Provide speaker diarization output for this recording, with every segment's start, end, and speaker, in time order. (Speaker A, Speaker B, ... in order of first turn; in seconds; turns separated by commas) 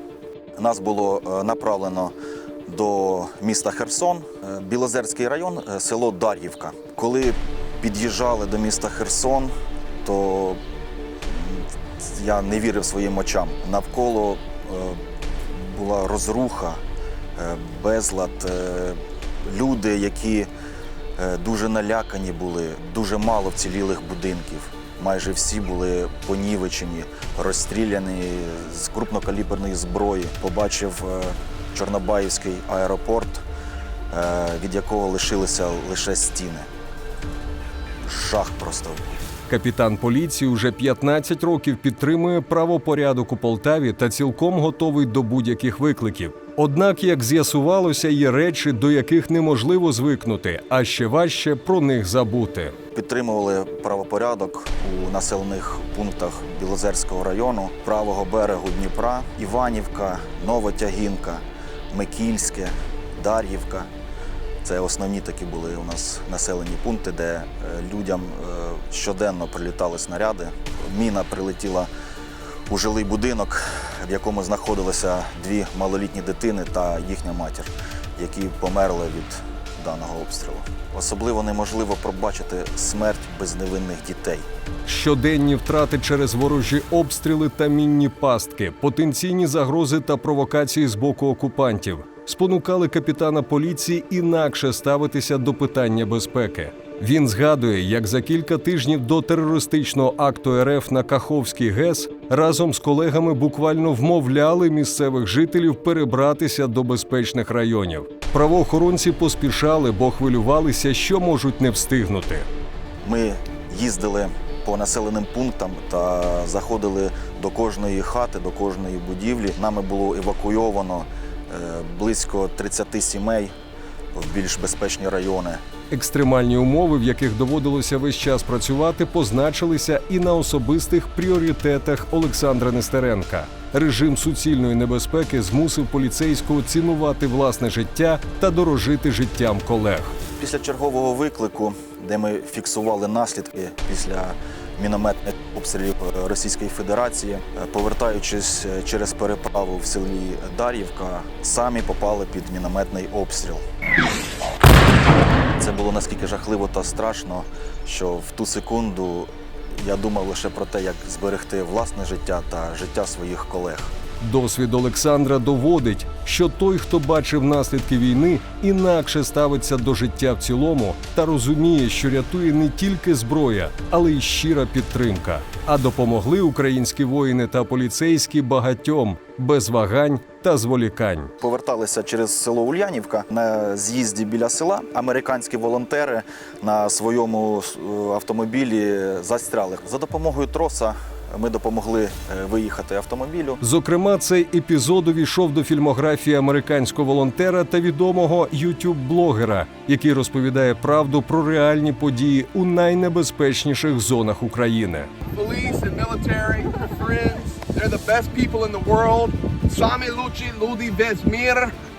Speaker A: 0.6-2.1, Speaker A: 2.7-9.5, Speaker A: 10.0-10.6, Speaker A: 11.3-16.8, Speaker A: 17.4-20.5, Speaker A: 21.2-33.4, Speaker A: 34.1-36.7, Speaker A: 38.0-39.0, Speaker B: 39.5-52.8, Speaker A: 52.9-63.9, Speaker A: 64.6-71.9, Speaker A: 72.7-84.5, Speaker B: 84.8-112.5, Speaker A: 113.0-123.5, Speaker A: 124.1-125.6, Speaker B: 125.9-140.2, Speaker A: 140.3-153.6, Speaker A: 155.6-163.9, Speaker B: 164.2-181.3, Speaker A: 181.4-193.6, Speaker B: 193.6-205.1, Speaker C: 205.3-211.7